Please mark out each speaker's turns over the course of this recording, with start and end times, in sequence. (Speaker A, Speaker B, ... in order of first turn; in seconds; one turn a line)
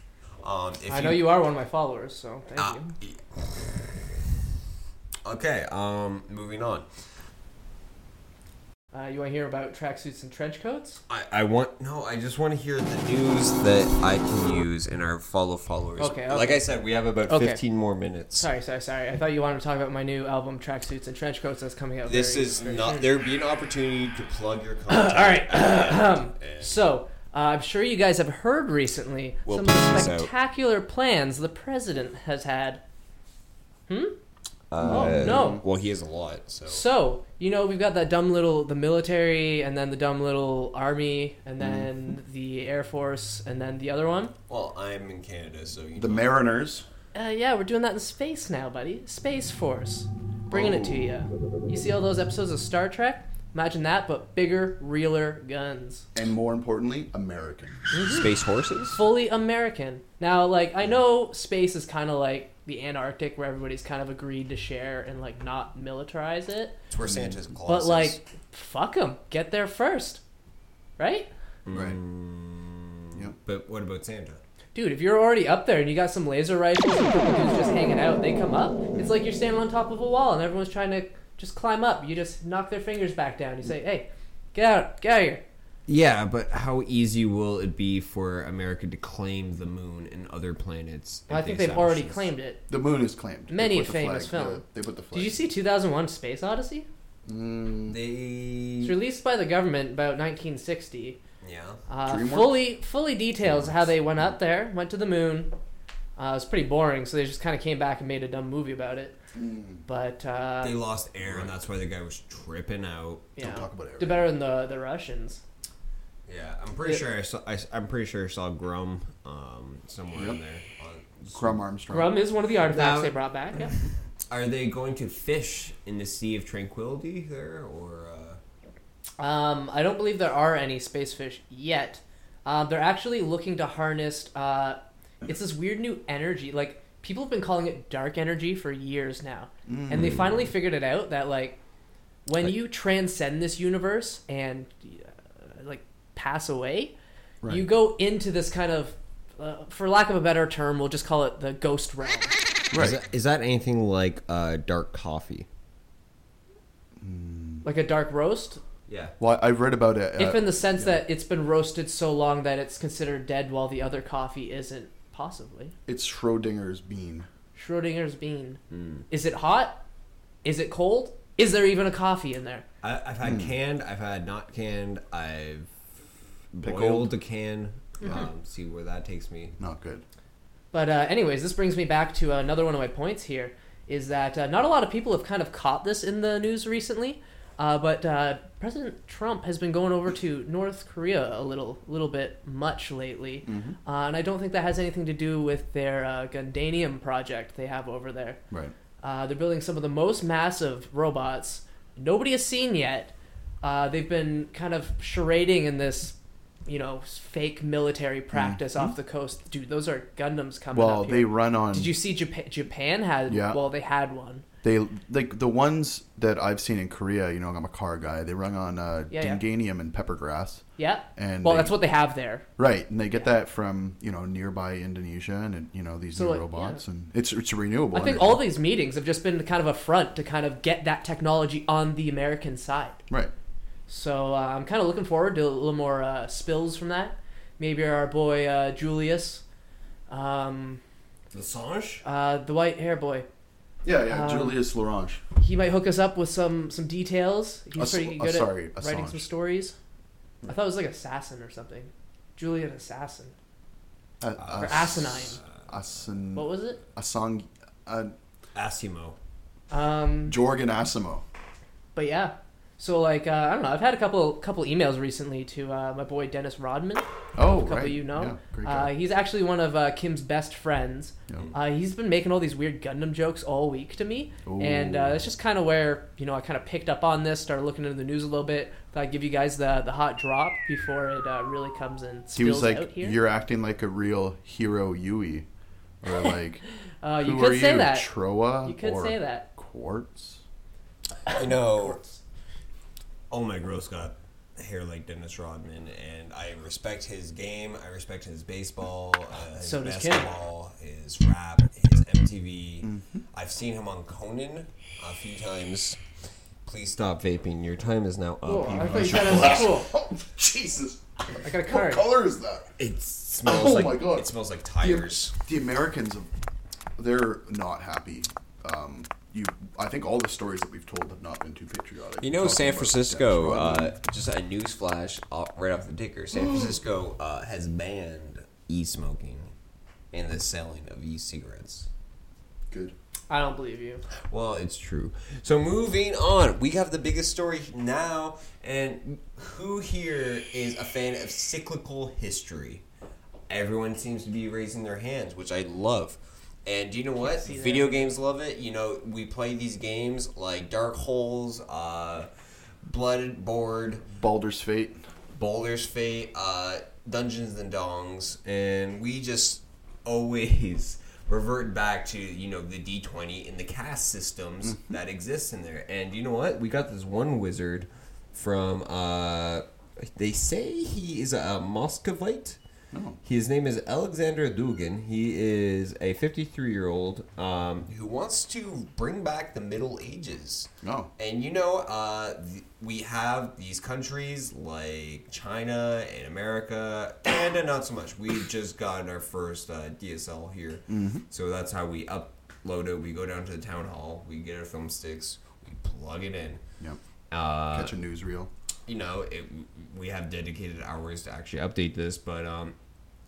Speaker A: 0.4-1.3
Speaker B: 0.9-2.9
Speaker A: 2.6-4.3
Speaker A: 5.2-6.9
Speaker B: 8.9-11.0
Speaker A: 11.1-18.5
Speaker B: 16.0-16.6
Speaker B: 17.3-17.6
Speaker B: 18.4-23.1
Speaker A: 22.1-26.8
Speaker B: 24.9-32.8
Speaker A: 29.5-30.3
Speaker B: 33.9-34.2
Speaker A: 34.7-36.9
Speaker C: 34.8-35.6
Speaker B: 34.8-35.6
Speaker B: 36.7-44.4
Speaker C: 41.6-41.9
Speaker A: 44.5-46.4
Speaker C: 46.0-46.9
Speaker B: 47.1-56.1
Speaker C: 50.5-51.1
Speaker C: 56.1-57.8
Speaker B: 57.9-58.3
Speaker A: 58.0-59.0
Speaker B: 59.0-66.8
Speaker A: 66.9-68.2
Speaker C: 67.1-67.4
Speaker B: 67.7-70.2
Speaker B: 71.0-71.3
Speaker A: 71.7-74.4
Speaker C: 71.7-72.0
Speaker B: 74.8-85.4
Speaker A: 85.9-92.3
Speaker B: 91.3-92.6
Speaker C: 92.7-95.4
Speaker B: 93.5-96.9
Speaker C: 97.3-98.0
Speaker A: 97.9-99.0
Speaker B: 98.8-101.2
Speaker A: 101.4-101.8
Speaker B: 101.9-105.5
Speaker C: 102.0-102.7
Speaker C: 103.4-104.3
Speaker B: 106.2-109.2
Speaker C: 109.3-109.8
Speaker B: 109.9-110.8
Speaker A: 110.6-113.3
Speaker C: 111.2-111.5
Speaker B: 113.4-115.4
Speaker C: 113.4-114.3
Speaker A: 116.3-121.6
Speaker C: 121.3-122.2
Speaker B: 121.9-123.7
Speaker A: 122.6-128.4
Speaker B: 129.2-141.6
Speaker C: 139.7-140.5
Speaker A: 139.9-140.3
Speaker B: 142.3-152.4
Speaker C: 152.7-153.0
Speaker A: 152.8-155.5
Speaker C: 157.0-157.7
Speaker B: 157.6-158.6
Speaker A: 158.9-159.1
Speaker C: 159.2-161.0
Speaker B: 160.2-165.7
Speaker C: 165.9-167.3
Speaker B: 167.6-169.8
Speaker A: 168.7-169.1
Speaker B: 170.4-172.7
Speaker A: 172.8-175.8
Speaker C: 173.2-173.6
Speaker A: 176.5-179.6
Speaker C: 176.6-177.1
Speaker C: 179.6-180.0
Speaker B: 180.7-198.4
Speaker C: 193.4-193.8
Speaker B: 199.0-214.4
Speaker C: 208.3-208.9
Speaker C: 210.7-212.0
Speaker C: 213.3-213.6
Speaker C: 214.6-220.6
Speaker B: 219.1-219.4
Speaker B: 220.8-222.4
Speaker C: 221.2-221.8
Speaker C: 222.6-228.5
Speaker B: 226.2-226.8
Speaker B: 227.9-233.0
Speaker B: 233.9-239.4
Speaker B: 240.1-240.8
Speaker A: 241.3-242.0
Speaker B: 242.0-243.3
Speaker C: 243.8-245.2
Speaker B: 244.1-244.6
Speaker B: 245.4-249.8
Speaker C: 247.8-249.3
Speaker B: 250.4-253.3
Speaker C: 254.2-258.1
Speaker A: 254.4-255.3
Speaker B: 254.5-255.4
Speaker B: 256.4-256.8
Speaker A: 258.6-259.2
Speaker B: 259.7-260.4
Speaker C: 260.3-261.2
Speaker B: 261.9-283.2
Speaker C: 267.4-268.9
Speaker C: 274.5-275.3
Speaker C: 282.3-285.5
Speaker C: 286.0-286.6
Speaker B: 286.1-286.3
Speaker B: 287.0-288.1
Speaker C: 287.2-290.4
Speaker B: 288.6-289.5
Speaker A: 291.2-292.0
Speaker B: 291.3-292.2
Speaker A: 293.3-306.0
Speaker B: 299.6-300.3
Speaker C: 302.8-303.2
Speaker A: 306.6-309.7
Speaker B: 308.5-309.9
Speaker C: 308.7-312.7
Speaker B: 311.4-312.1
Speaker A: 312.8-315.5
Speaker C: 313.4-316.3
Speaker C: 317.0-323.9
Speaker A: 322.2-329.5
Speaker A: 330.1-331.9
Speaker C: 332.7-332.9
Speaker B: 333.3-334.0
Speaker A: 334.3-342.8
Speaker A: 343.5-352.3
Speaker B: 347.2-348.1
Speaker A: 352.9-354.1
Speaker C: 354.1-355.0
Speaker A: 355.4-372.6
Speaker C: 372.9-373.2
Speaker A: 373.2-396.6
Speaker C: 380.8-381.1
Speaker C: 390.9-391.2
Speaker A: 397.3-398.0
Speaker C: 397.7-398.5
Speaker A: 398.9-402.8